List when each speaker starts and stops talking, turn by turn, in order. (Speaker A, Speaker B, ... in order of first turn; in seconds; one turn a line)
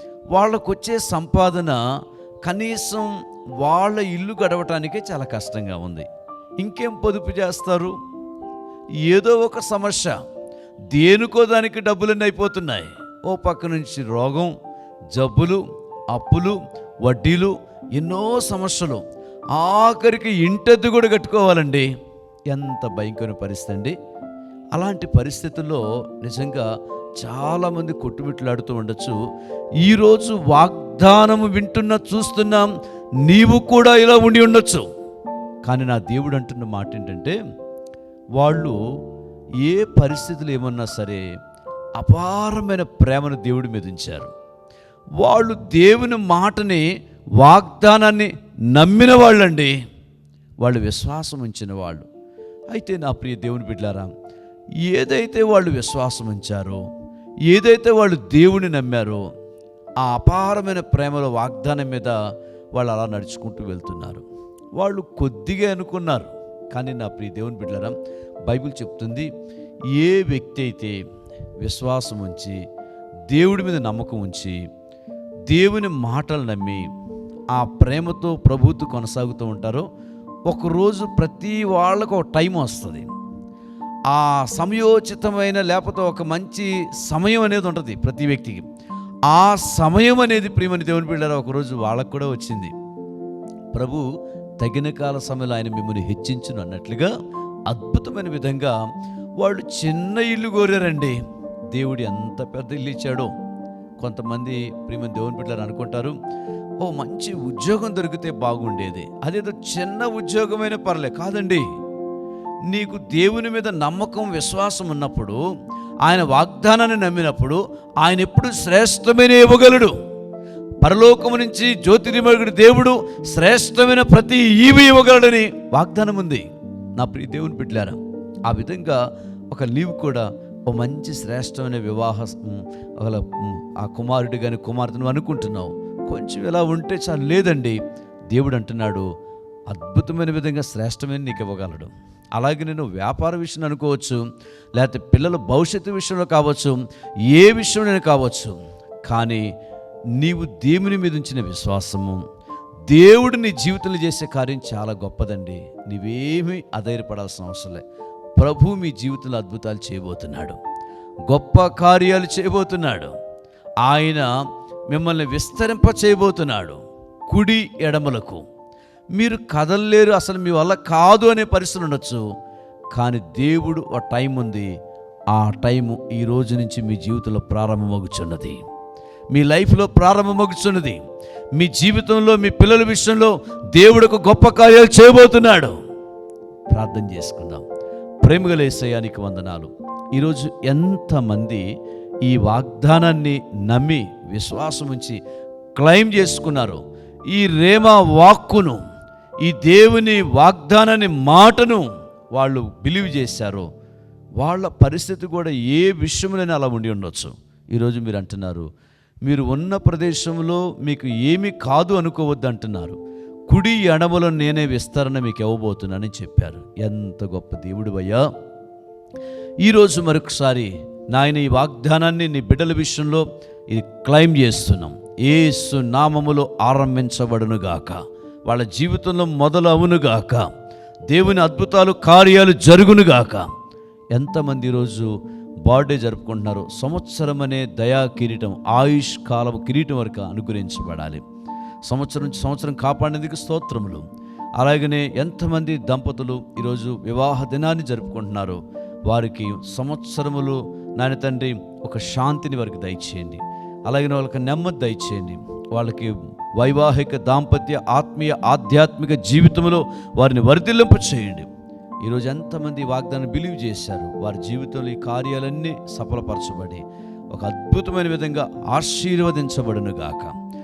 Speaker A: 0.3-1.8
Speaker A: 2.4-6.1
Speaker A: 6.6-8.0
Speaker A: 9.0-10.2
Speaker A: 10.9-14.5
Speaker A: 15.1-19.0
Speaker A: 19.5-21.9
Speaker A: 22.5-23.9
Speaker A: 24.8-26.7
Speaker A: 27.2-29.2
Speaker A: 29.8-32.7
Speaker A: 33.2-34.9
Speaker A: 35.6-37.4
Speaker A: 38.4-38.8
Speaker A: 39.6-41.2
Speaker A: 42.0-44.3
Speaker A: 45.2-46.9
Speaker A: 47.4-49.8
Speaker A: 50.6-52.1
Speaker A: 52.7-54.1
Speaker A: 54.9-56.8
Speaker A: 57.5-59.2
Speaker A: 60.0-62.1
Speaker A: 62.7-64.2
Speaker A: 64.8-68.0
Speaker A: 68.5-69.3
Speaker A: 69.9-71.0
Speaker A: 71.6-72.6
Speaker A: 73.3-74.6
Speaker A: 75.5-76.8
Speaker A: 77.5-79.9
Speaker A: 80.5-83.1
Speaker A: 84.1-88.7
Speaker A: 89.3-92.7
Speaker A: 93.7-94.0
Speaker A: 94.6-97.1
Speaker A: 97.7-98.8
Speaker A: 99.4-101.2
Speaker A: 101.7-103.3
Speaker A: 104.0-106.2
Speaker A: 106.8-111.7
Speaker A: 112.7-115.4
Speaker A: 116.0-120.0
Speaker A: 120.8-137.8
Speaker A: 138.3-139.1
Speaker A: 139.7-144.2
Speaker A: 144.8-149.5
Speaker A: 150.2-152.2
Speaker A: 152.9-157.8
Speaker A: 158.4-160.6
Speaker A: 161.3-163.1
Speaker A: 163.8-164.3
Speaker A: 164.9-168.4
Speaker A: 169.2-172.2
Speaker A: 172.9-174.7
Speaker A: 175.3-178.6
Speaker A: 179.3-181.0
Speaker A: 181.5-185.8
Speaker A: 186.7-187.7
Speaker A: 188.2-191.6
Speaker A: 192.2-195.2
Speaker A: 195.8-198.8
Speaker A: 199.4-203.7
Speaker A: 204.4-208.7
Speaker A: 209.2-218.3
Speaker A: 219.6-230.5
Speaker A: 231.1-233.5
Speaker A: 234.1-235.1
Speaker A: 235.6-241.2
Speaker A: 241.9-244.1
Speaker A: 244.6-261.5
Speaker A: 262.0-270.4